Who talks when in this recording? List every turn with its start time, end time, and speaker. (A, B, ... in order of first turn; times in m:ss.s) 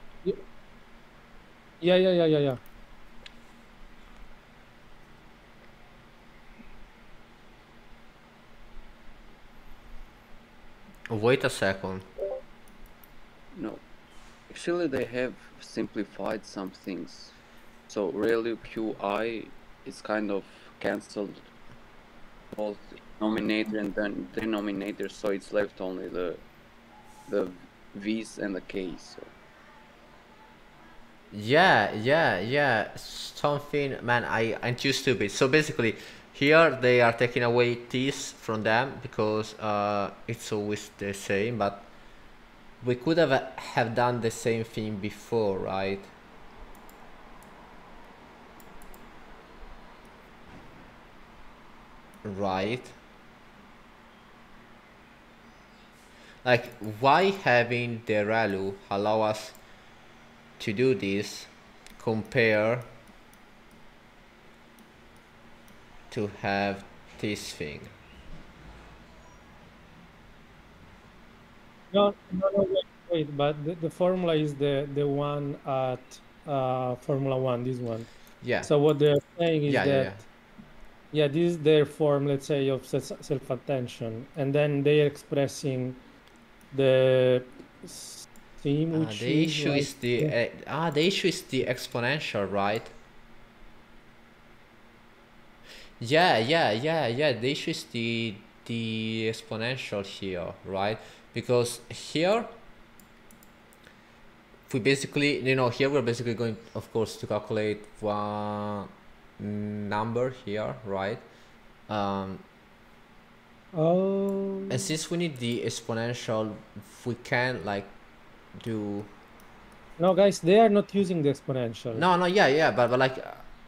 0:01.8-0:02.6 A
0:11.1-0:12.1 B
0:13.5-0:13.8 C
0:14.5-0:17.4 C
0:17.9-0:21.5 C
0:22.5-0:26.4 C
0:27.3-0:29.3 C
0:31.3-0:41.9 B
0:42.8-0:46.1 B
0:52.2-0:53.0 B
0:56.4-0:59.6 B
1:00.6-1:02.9 B
1:06.1-1:07.9 B
1:11.9-1:18.1 A
1:18.4-1:18.7 B
1:18.6-1:20.2 A
1:19.7-1:20.2 B
1:21.1-1:26.0 A
1:26.7-1:30.3 A
1:28.9-1:32.9 B
1:36.0-1:42.5 B
1:44.7-1:51.2 B
1:51.9-1:52.4 B
1:53.7-1:54.8 A
1:54.7-1:57.9 B
1:58.6-1:59.1 B
2:00.0-2:02.1 A
2:02.0-2:03.4 B